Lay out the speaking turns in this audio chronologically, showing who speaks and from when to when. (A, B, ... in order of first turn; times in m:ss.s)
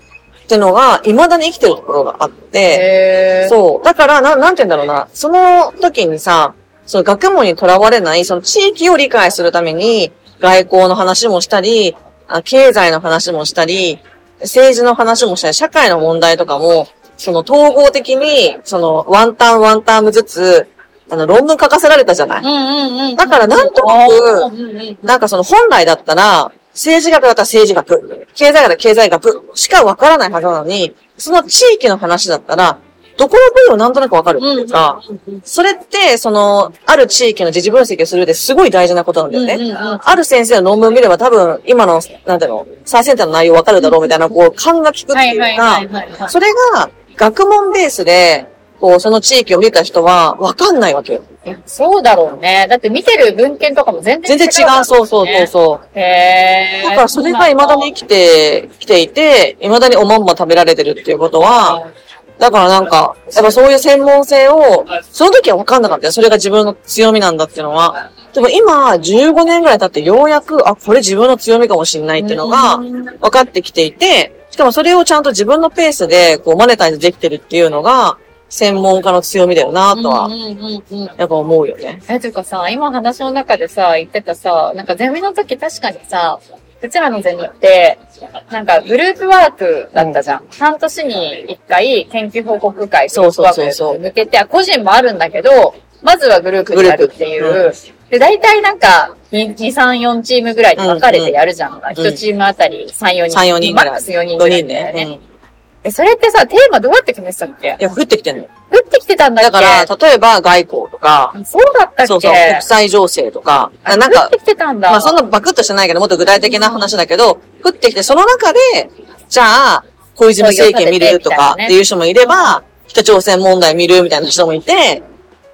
0:00.5-0:02.9 A
0:02.7-0:03.6 B
0:03.4-0:22.4 A
0:22.4-0:25.1 B
0:23.2-0:24.5 A
0:25.0-0:51.2 A
0:34.4-0:35.4 B
0:39.3-0:40.1 B
0:43.8-0:44.1 B
0:45.1-0:46.3 B
0:51.5-0:57.9 B
0:54.2-0:55.8 A
0:56.8-1:01.8 A
1:01.6-1:01.9 B
1:02.4-1:20.3 A
1:12.2-1:13.2 B
1:19.9-1:21.2 B
1:21.2-1:22.0 A
1:22.1-1:45.1 B
1:33.1-1:34.0 A
1:36.7-1:37.6 A
1:40.8-1:41.4 A
1:41.9-1:42.2 A
1:43.3-1:45.2 A
1:45.8-1:47.8 B
1:47.8-1:48.5 A
1:48.7-1:49.9 B
1:49.4-1:51.3 A
1:51.3-1:52.6 B
1:52.0-1:54.4 A
1:53.8-1:55.2 B
1:54.9-2:05.0 A
1:56.4-1:56.9 B
2:00.4-2:01.8 B